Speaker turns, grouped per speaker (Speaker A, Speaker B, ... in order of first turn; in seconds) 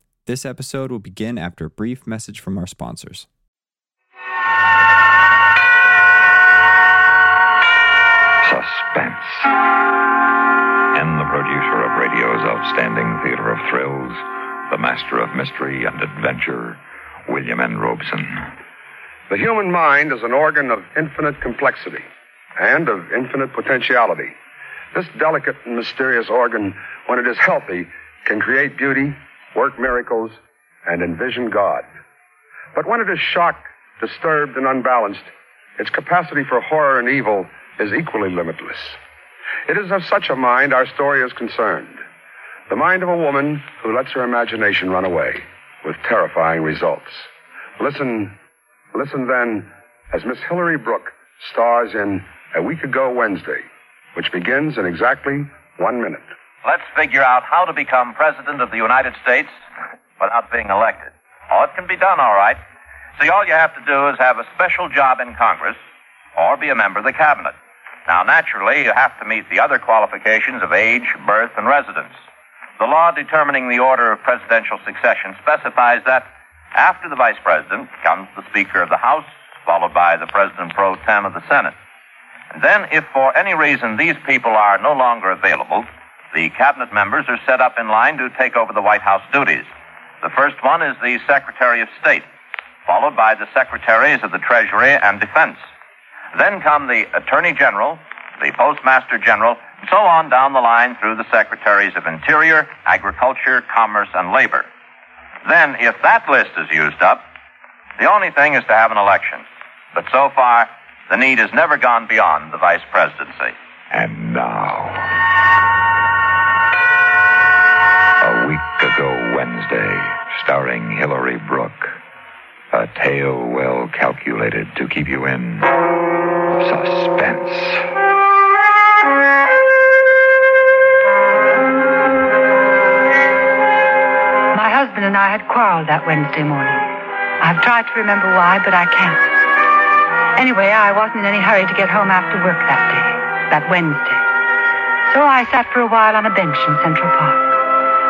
Speaker A: 0.3-3.3
Speaker B: 8.4-9.5, 10.9-18.5, 113.9-115.2, 118.2-122.0, 122.7-125.7, 126.6-127.9
Speaker C: 19.3-22.1, 22.6-24.3, 24.9-31.9, 32.8-39.0, 39.7-42.0, 42.7-47.3, 47.8-48.4, 48.9-56.3
Speaker D: 56.6-59.6, 60.2-62.6, 63.2-65.8, 66.4-67.5, 68.1-72.1, 72.8-81.8, 82.5-89.7, 90.2-92.3, 92.9-95.7, 96.3-104.7, 105.5-107.2, 108.0-113.6
Speaker E: 134.5-139.5, 140.4-144.3, 145.1-147.5